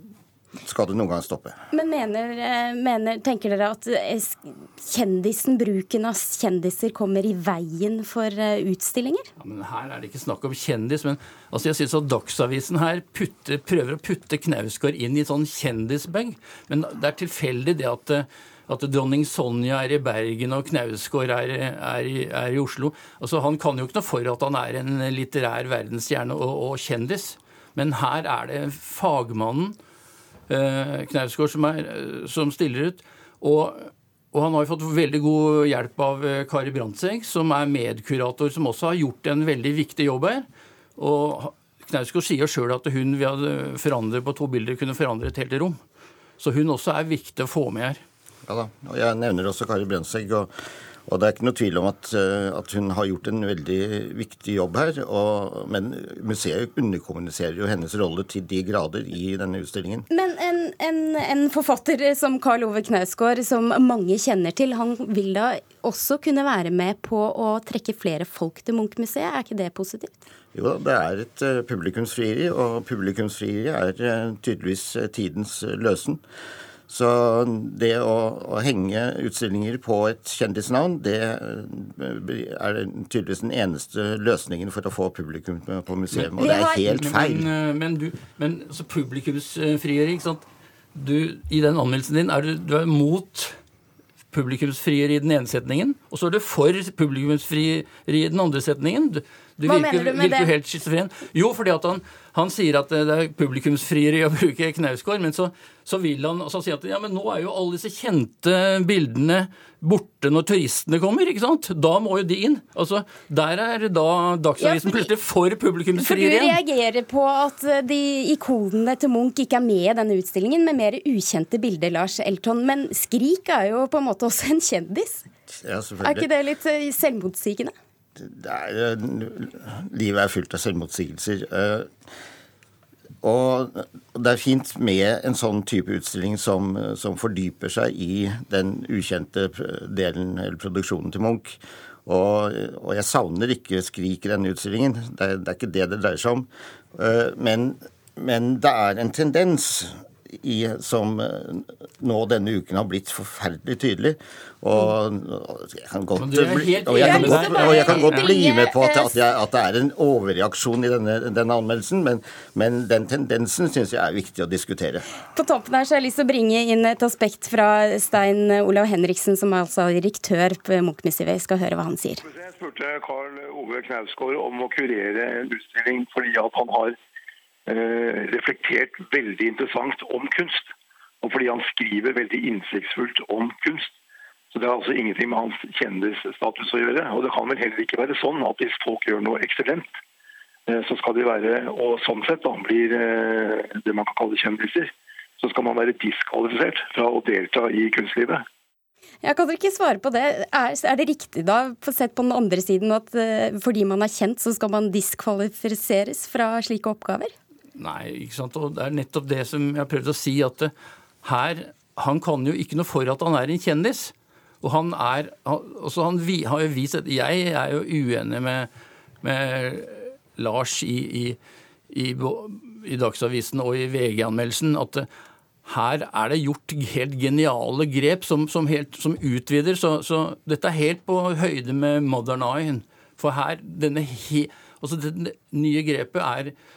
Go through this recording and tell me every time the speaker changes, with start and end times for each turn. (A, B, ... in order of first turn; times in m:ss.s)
0:00.6-0:01.6 A
0:01.7-0:09.3 B
0:09.4-0:29.8 C
0:30.5-0:40.5 C
0:41.0-0:45.8 C
0:46.4-0:48.0 C
0:48.5-0:50.5 A
0:51.1-1:00.1 A
1:00.1-1:10.2 B
1:10.5-1:16.2 A
1:16.9-1:27.5 A
1:26.1-1:33.6 C
1:26.4-1:26.8 B
1:34.3-1:56.6 C
1:39.6-1:40.5 B
1:54.6-1:55.1 B
1:56.0-2:05.3 B
2:05.5-2:06.3 A
2:06.0-2:07.7 B
2:08.2-2:11.9 A
2:13.2-2:45.1 A
2:36.2-2:38.3 C
2:36.9-2:39.2 B
2:45.4-2:52.2 B
2:52.2-2:57.0 D
2:57.7-3:00.7 D
3:01.2-3:03.9 D
3:04.5-3:09.9 D
3:10.7-3:18.4 D
3:19.2-3:27.3 B
3:27.8-3:30.7 C
3:31.2-3:38.7 C
3:39.2-3:41.4 C
3:41.9-3:45.1 C
3:45.6-3:56.5 C